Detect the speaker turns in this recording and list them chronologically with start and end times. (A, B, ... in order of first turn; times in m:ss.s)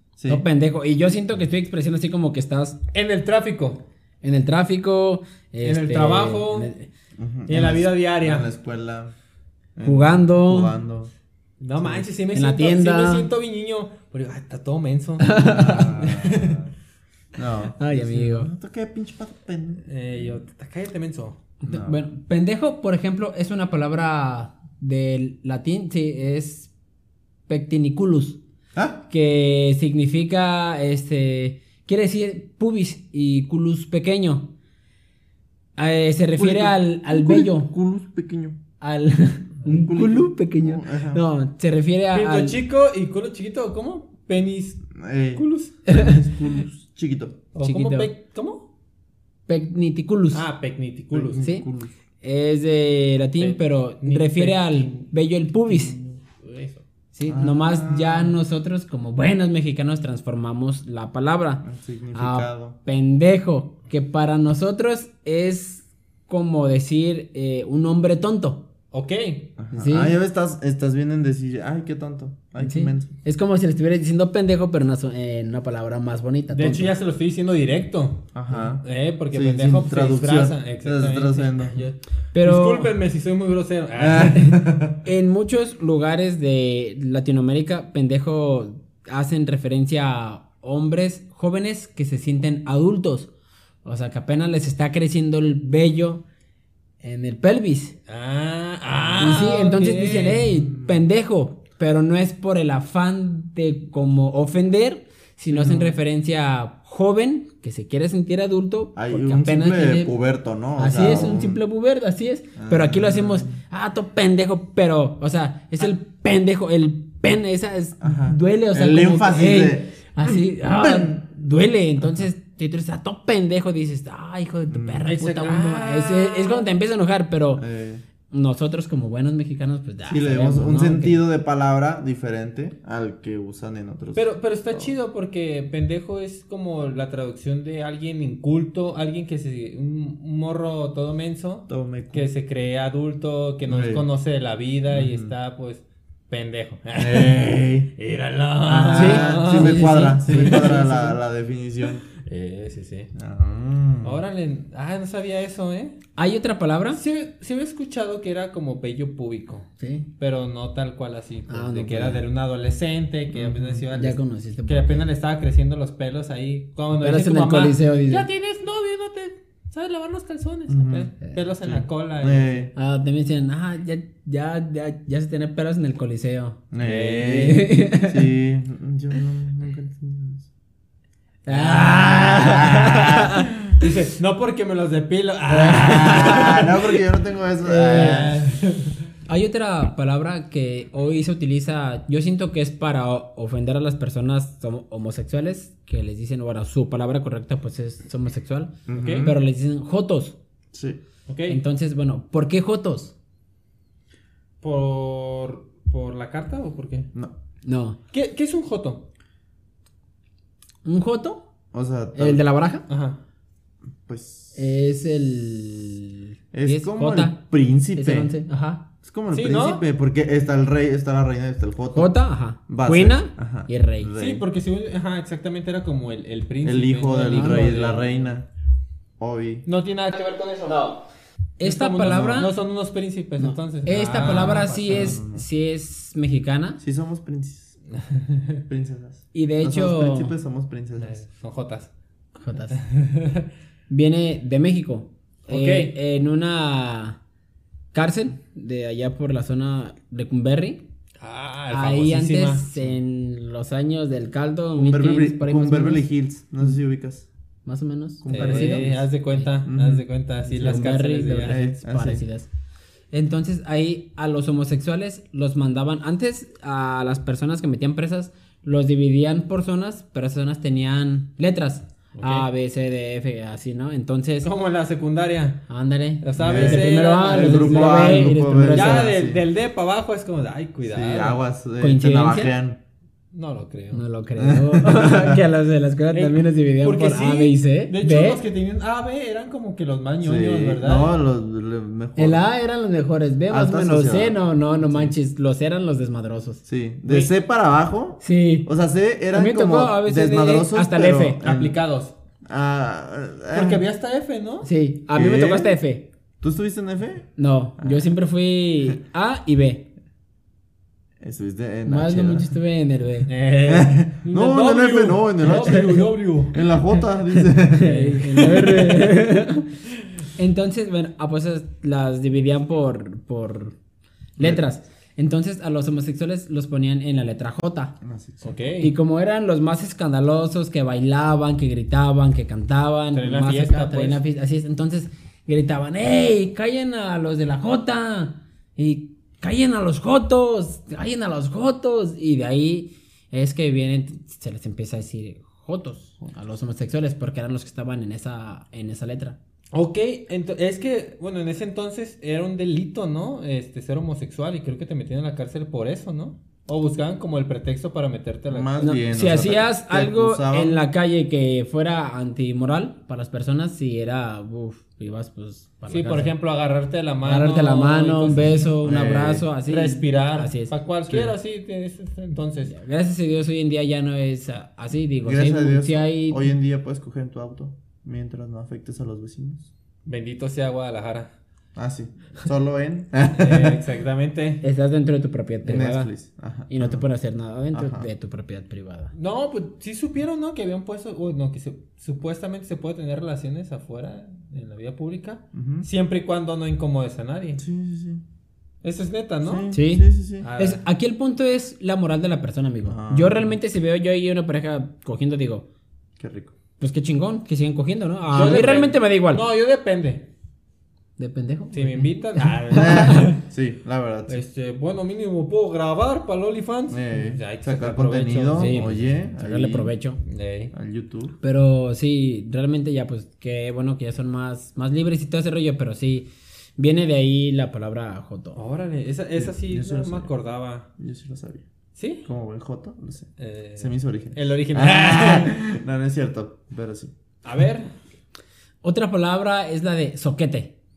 0:00.2-0:00.4 A
0:00.3-0:02.8 B
0:02.9-0:03.8 C
0:04.2-0:06.9 B
0:05.6-0:06.7 C
0:07.2-0:09.1 A
0:07.5-0:08.5 C
0:09.8-0:11.1 A
0:09.8-0:10.7 B
0:11.6-0:16.6 C
0:11.8-0:12.1 A
0:12.3-0:13.3 B
0:15.2-0:16.0 B
0:15.4-0:16.7 A
0:17.3-0:20.3 A
0:17.8-0:18.5 B
0:19.8-0:21.4 C
0:21.6-0:22.0 A
0:21.6-0:26.7 B
0:27.5-0:28.4 B
0:28.7-0:29.0 A
0:29.1-0:34.5 B
0:35.8-0:37.7 B
0:36.4-0:38.6 A
0:38.8-0:42.6 B
0:39.6-0:41.2 A
0:42.1-0:45.8 C
0:44.9-0:47.4 A
0:45.9-0:46.2 B
0:47.5-0:48.6 C
0:47.6-0:48.1 B
0:49.5-0:50.4 B
0:50.3-0:51.4 C
0:51.1-0:51.9 A
0:51.4-0:51.7 B
0:52.2-0:56.0 B
0:53.4-0:55.0 C
0:55.7-0:56.8 C
0:57.1-1:08.6 B
0:57.3-0:58.4 A
1:01.6-1:02.8 A
1:08.9-1:09.5 C
1:09.6-1:13.1 A
1:09.7-1:10.2 B
1:12.6-1:16.9 B
1:16.5-1:24.6 C
1:18.3-1:21.9 A
1:22.3-1:22.9 B
1:24.0-1:25.0 A
1:25.0-1:33.3 B
1:33.8-1:36.2 B
1:37.0-1:38.0 B
1:38.1-1:40.4 C
1:39.2-1:50.1 B
1:40.4-1:41.0 A
1:45.5-1:46.0 A
1:49.0-1:51.6 A
1:50.8-2:07.6 B
1:52.6-1:53.6 A
1:58.0-2:00.0 A
2:00.8-2:01.2 A
2:02.0-2:02.3 A
2:04.7-2:05.5 A
2:05.0-2:06.7 C
2:07.6-2:08.0 A
2:08.3-2:11.2 B
2:10.0-2:14.9 A
2:14.1-2:31.1 C
2:21.7-2:22.3 A
2:23.6-2:24.0 A
2:24.9-2:25.3 A
2:27.0-2:27.9 A
2:28.6-2:32.0 A
2:28.9-2:31.1 B
2:32.2-2:33.1 C
2:33.1-2:34.2 A
2:34.0-2:36.0 C
2:36.2-2:37.0 B
2:36.9-2:39.7 C
2:39.8-2:40.1 B
2:40.2-2:52.7 C
2:41.5-2:42.2 B
2:43.3-2:43.8 A
2:43.9-2:45.1 B
2:47.0-2:48.3 B
2:50.7-2:52.7 A
2:52.8-2:58.2 B
2:56.7-3:00.5 A
2:56.8-2:57.6 C
3:01.4-3:03.5 B
3:01.5-3:07.0 C
3:01.6-3:03.4 A
3:05.5-3:06.6 B
3:05.6-3:08.4 A
3:07.6-3:08.4 B
3:07.8-3:09.0 C
3:09.2-3:20.4 B
3:18.9-3:19.4 A
3:18.9-3:19.3 C
3:20.7-3:21.0 A
3:21.3-3:21.6 C
3:21.5-3:23.1 B
3:24.6-3:27.1 C
3:27.6-3:28.0 B
3:28.1-3:29.1 C
3:30.8-3:31.4 B
3:31.7-3:32.4 A
3:32.1-3:32.8 B
3:32.9-3:33.2 C
3:34.0-3:34.6 A
3:34.5-3:37.4 B
3:36.5-3:38.3 A
3:37.9-3:38.9 B
3:39.0-3:44.4 A
3:39.3-3:39.8 C
3:41.9-3:44.1 B
3:44.2-3:48.2 C
3:46.6-3:48.5 A
3:47.2-3:47.8 B
3:49.2-3:49.6 A
3:49.6-3:51.0 C
3:50.7-3:51.0 B
3:51.6-3:52.5 B
3:51.6-3:55.2 C
3:52.0-3:52.5 A
3:53.4-3:56.8 B
3:54.1-3:55.5 A
3:56.8-3:57.8 A
3:58.0-3:58.6 C
3:58.7-4:01.2 A
3:59.3-4:00.3 B
4:01.0-4:01.9 C
4:02.4-4:02.8 B
4:02.7-4:03.5 C
4:03.9-4:07.2 B
4:05.5-4:06.0 C
4:07.9-4:10.8 B
4:11.2-4:12.7 C
4:11.7-4:16.0 B
4:14.8-4:17.3 A
4:17.6-4:19.5 B
4:18.2-4:19.0 A
4:18.3-4:21.6 C
4:19.6-4:20.0 A
4:20.5-4:22.5 B
4:21.4-4:22.2 A
4:23.1-4:34.5 B
4:32.2-4:32.5 C
4:34.4-4:35.7 C
4:35.7-4:39.1 B
4:36.2-4:41.4 C
4:36.4-4:39.4 A
4:40.8-4:42.8 A
4:41.8-4:42.6 B
4:43.3-4:44.0 C
4:43.9-4:48.4 B
4:44.4-4:45.4 A
4:46.1-4:51.2 C
4:50.2-4:52.5 A
4:52.2-4:57.3 B
4:53.5-4:55.2 A
4:56.6-5:01.8 A
4:58.2-4:58.7 B
4:59.3-5:01.4 B
5:01.4-5:02.1 C
5:02.4-5:03.8 A
5:03.5-5:04.7 C
5:04.6-5:06.1 B
5:05.1-5:05.8 A
5:06.4-5:08.1 A
5:07.4-5:09.9 B
5:11.2-5:12.5 A
5:11.9-5:13.3 B
5:13.3-5:16.6 C
5:13.6-5:18.1 A
5:15.6-5:16.0 B
5:17.3-5:19.7 B
5:17.8-5:19.2 C
5:20.4-5:23.8 B
5:24.4-5:28.0 B
5:24.4-5:24.6 A
5:28.0-5:28.5 A
5:28.4-5:28.9 C
5:28.8-5:49.4 B
5:33.1-5:34.2 C
5:49.7-5:58.8 C
5:58.5-6:00.8 A
5:58.8-6:06.3 B
6:05.9-6:08.7 C
6:07.2-6:11.3 B
6:08.8-6:09.5 A
6:09.7-6:12.7 C
6:12.7-6:16.5 B
6:15.2-6:19.7 A
6:20.0-6:21.3 C
6:21.7-6:23.8 A
6:23.3-6:24.6 C
6:24.6-6:26.1 B
6:25.6-6:27.1 A
6:26.7-6:29.1 B
6:27.7-6:28.1 A
6:29.1-6:37.6 C
6:35.5-6:35.9 A
6:37.6-6:38.2 A
6:38.8-6:39.7 C
6:39.4-6:40.5 A
6:39.7-6:45.6 B
6:40.4-6:40.8 C
6:42.8-6:43.6 A
6:46.2-6:46.5 A
6:46.8-6:49.4 B
6:48.3-6:50.3 C
6:51.2-6:52.1 B
6:51.7-6:53.4 C
6:52.7-6:54.4 A
6:52.7-6:53.3 B
6:54.3-6:59.0 C
6:56.9-6:59.9 A
6:58.6-7:00.2 B
7:00.2-7:00.7 C
7:00.7-7:01.4 A
7:01.4-7:08.6 B
7:08.5-7:10.9 C
7:09.4-7:10.3 A
7:11.0-7:11.6 A
7:12.0-7:12.3 C
7:12.2-7:17.1 A
7:13.4-7:15.6 C
7:17.4-7:17.9 C
7:18.8-7:20.7 B